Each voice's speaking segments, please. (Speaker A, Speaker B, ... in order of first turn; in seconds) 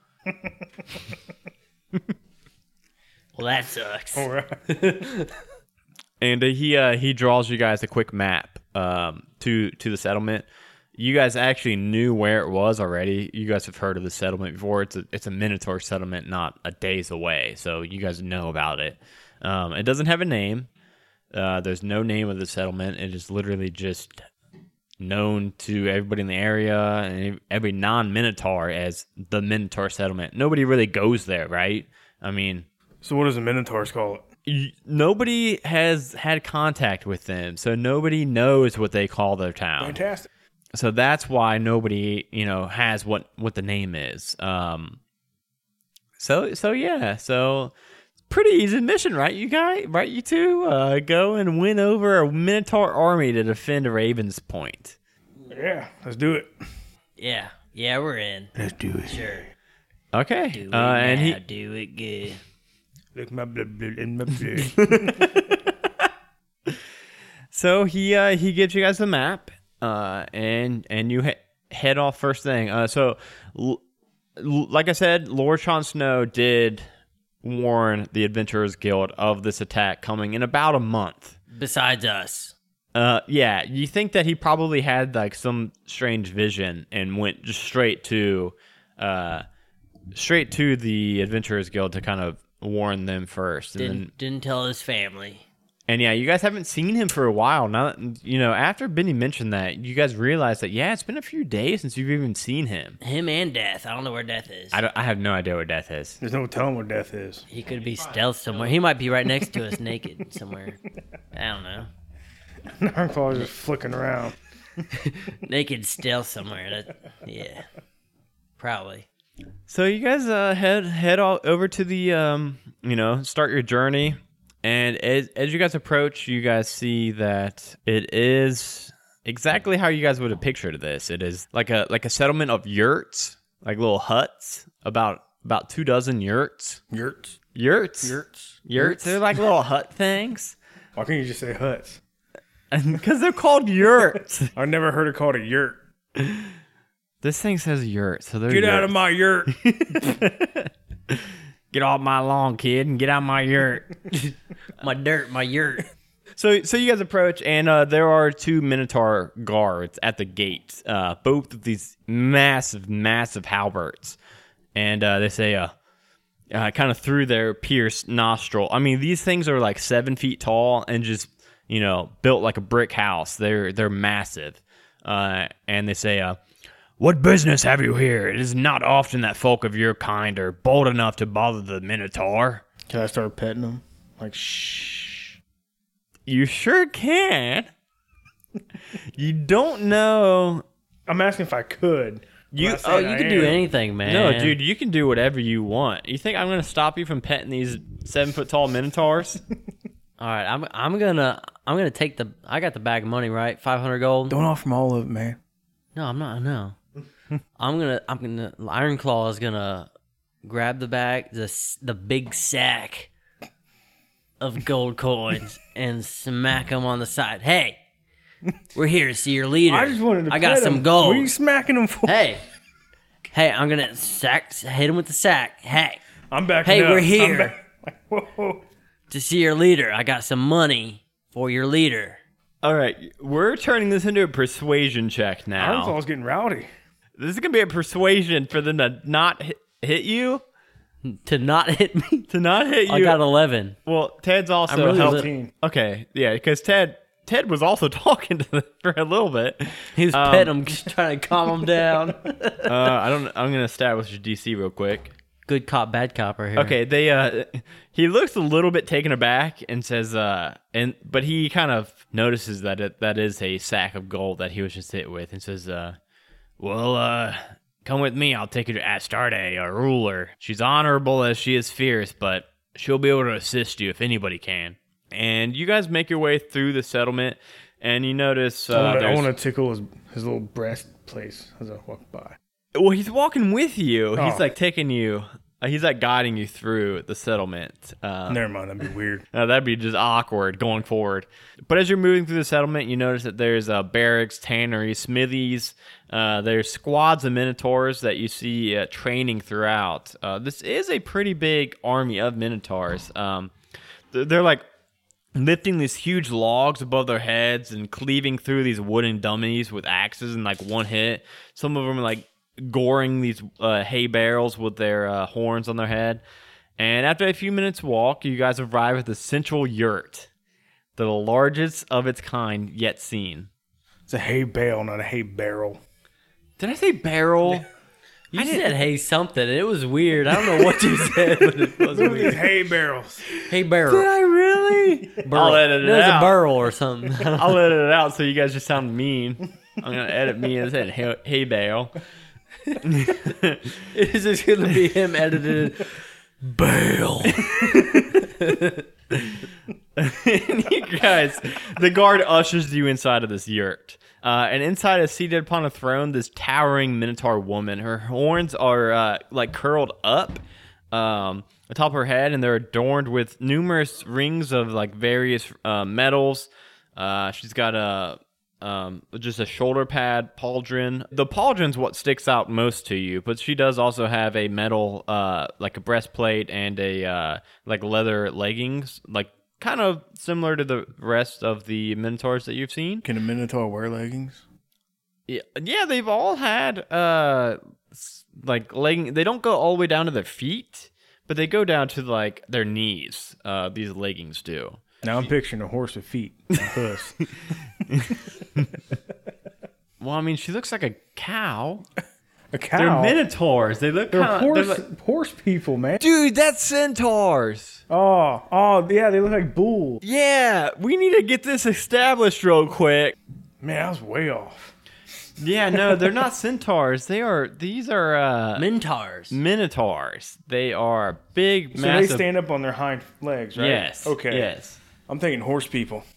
Speaker A: 0.3-0.6, 4.2-4.9, 33.0-34.2, 39.8-40.3, 55.5-56.5, 58.6-59.4, 63.1-65.5, 106.2-107.5, 112.7-114.4, 136.9-137.4, 138.0-139.2, 141.0-142.0, 144.6-145.8, 148.5-150.2, 182.9-185.4, 191.1-193.7, 204.3-205.4, 219.7-222.3, 226.3-228.6, 235.6-236.7, 244.8-245.5, 278.7-282.4, 284.2-284.5, 288.3-289.3, 324.1-325.8, 331.9-333.2, 383.0-384.4, 395.0-397.2, 402.5-403.2, 404.1-406.0, 407.9-410.0, 413.6-414.8, 415.8-416.1, 421.7-424.5, 425.1-426.1
Speaker B: 3.4-5.3, 57.2-58.5, 59.1-59.5, 60.5-62.4, 81.5-82.5, 93.8-95.5, 103.0-104.8, 107.5-110.8, 111.3-111.9, 114.9-117.7, 118.6-119.1, 154.3-155.9, 193.2-194.6, 200.2-204.4, 205.9-206.8, 207.6-209.9, 210.4-213.1, 214.4-217.8, 218.8-221.3, 222.1-222.4, 223.3-226.0, 226.6-227.5, 229.1-232.2, 241.0-242.3, 242.9-243.8, 244.7-245.3, 249.9-252.9, 255.5-256.8, 328.3-332.3, 333.5-334.2, 334.7-337.7, 343.9-348.9, 418.6-419.4
Speaker C: 6.2-20.7, 21.3-24.2, 25.0-32.7, 34.5-40.0, 40.7-45.0, 46.2-47.7, 48.3-55.0, 60.1-61.4, 64.8-66.1, 67.5-73.8, 74.4-76.9, 77.4-81.4, 82.9-89.5, 90.2-94.1, 95.9-103.0, 104.7-106.2, 119.7-136.8, 137.6-140.6, 142.7-144.5, 146.2-146.5, 147.2-149.0, 149.5-153.9, 156.4-164.2, 164.8-165.7, 166.5-176.4, 177.0-182.7, 186.3-187.7, 188.9-190.7, 192.5-199.4, 232.6-236.0, 237.2-240.4, 242.3-243.2, 243.8-250.6, 252.7-255.1, 256.6-266.0, 266.6-279.3, 282.8-288.4, 289.3-303.5, 304.1-304.6, 305.4-316.2, 316.8-320.3, 321.0-323.5, 326.6-327.7, 328.3-328.8, 330.4-332.4, 333.3-336.4, 337.2-342.0, 342.8-343.9, 347.3-348.3, 349.1-349.4, 350.0-360.4, 360.9-383.1, 385.3-394.8, 397.2-398.8, 400.0-401.9, 402.8-404.8, 406.0-407.8, 410.0-413.2, 415.4-418.7, 419.3-422.2, 423.6-424.8